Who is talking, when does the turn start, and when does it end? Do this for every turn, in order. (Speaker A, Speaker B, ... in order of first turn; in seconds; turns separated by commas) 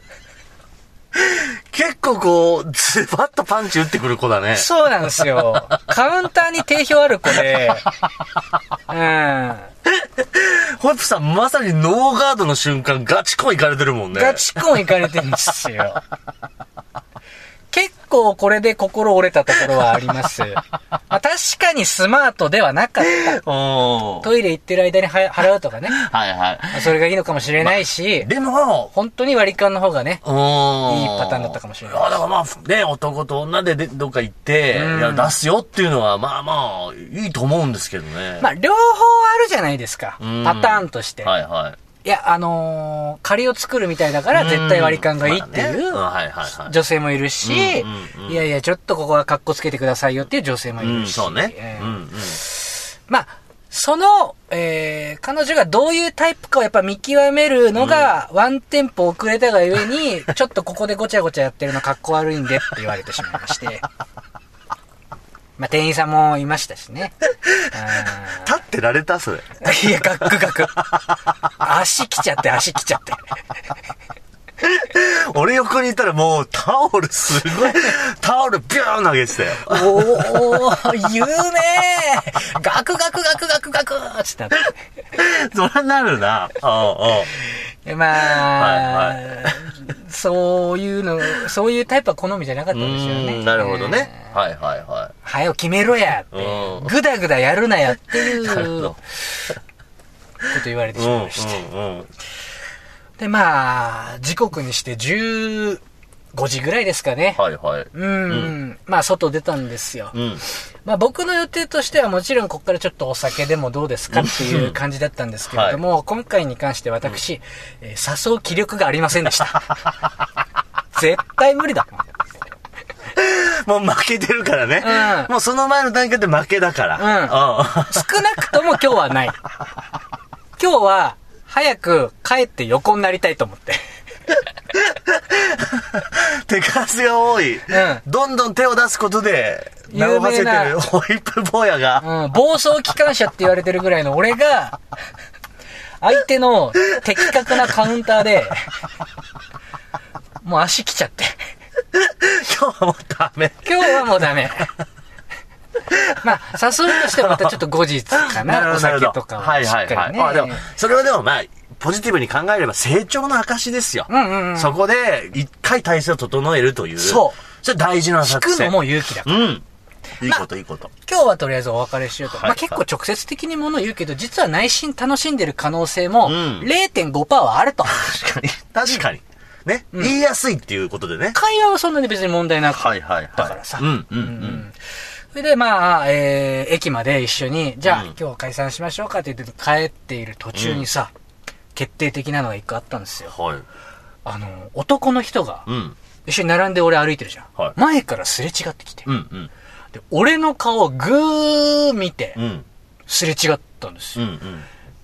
Speaker A: 1.1-4.7, Speaker B: 4.5-7.9, Speaker B: 8.9-9.7, Speaker A: 9.9-14.4, Speaker B: 14.1-16.0, Speaker B: 17.7-23.4, Speaker A: 23.0-24.3, Speaker B: 24.2-26.1, Speaker A: 25.9-26.9, Speaker B: 26.7-28.3, Speaker A: 27.6-28.9, Speaker B: 28.9-30.2, Speaker A: 30.2-38.5, Speaker B: 30.8-32.2, Speaker B: 34.7-35.4, Speaker B: 38.4-41.3, Speaker A: 40.2-41.8, Speaker B: 42.0-46.0, Speaker A: 44.3-46.8, Speaker B: 46.6-63.9, Speaker A: 47.4-48.4, Speaker A: 50.8-52.4, Speaker A: 57.8-58.1, Speaker B: 65.6-67.2, Speaker A: 67.5-69.6, Speaker B: 67.7-68.5, Speaker B: 69.6-70.9, Speaker B: 71.6-73.2, Speaker A: 74.6-80.7, Speaker B: 79.6-84.7, Speaker A: 85.2-87.3, Speaker B: 87.8-94.3, Speaker A: 88.2-89.5, Speaker A: 92.7-95.1, Speaker B: 95.2-99.0, Speaker A: 96.3-96.9, Speaker A: 98.2-99.0, Speaker B: 100.5-101.6, Speaker A: 101.0-102.1, Speaker B: 103.2-105.8, Speaker B: 106.3-107.4, Speaker A: 107.4-108.5, Speaker B: 107.9-110.2, Speaker A: 110.1-110.4, Speaker B: 110.8-119.8, Speaker A: 114.1-114.8, Speaker A: 115.5-115.8, Speaker B: 120.9-122.1, Speaker A: 123.2-128.2, Speaker B: 124.8-125.3, Speaker B: 127.0-129.4, Speaker B: 130.6-133.8, Speaker A: 134.8-142.1, Speaker B: 137.7-138.0, Speaker B: 139.9-140.8, Speaker B: 142.0-144.8, Speaker B: 146.0-148.7, Speaker B: 150.4-151.4, Speaker A: 151.9-154.1, Speaker B: 153.7-154.7, Speaker B: 156.2-160.7, Speaker A: 157.0-157.6, Speaker A: 158.2-169.6, Speaker B: 164.1-164.8, Speaker B: 167.0-167.4, Speaker B: 168.2-169.6, Speaker A: 170.2-170.9, Speaker B: 171.0-178.1, Speaker A: 172.3-172.8, Speaker A: 176.2-176.7, Speaker A: 177.9-181.4, Speaker B: 181.3-184.8, Speaker A: 182.8-184.6, Speaker B: 185.3-191.1, Speaker A: 187.9-188.1, Speaker A: 190.6-190.9, Speaker B: 191.8-193.3, Speaker A: 193.3-193.7, Speaker B: 194.2-195.7, Speaker A: 195.7-196.0, Speaker B: 196.3-199.1, Speaker A: 199.1-199.5, Speaker B: 199.9-202.4, Speaker A: 202.4-202.7, Speaker B: 203.1-204.2, Speaker A: 204.2-204.7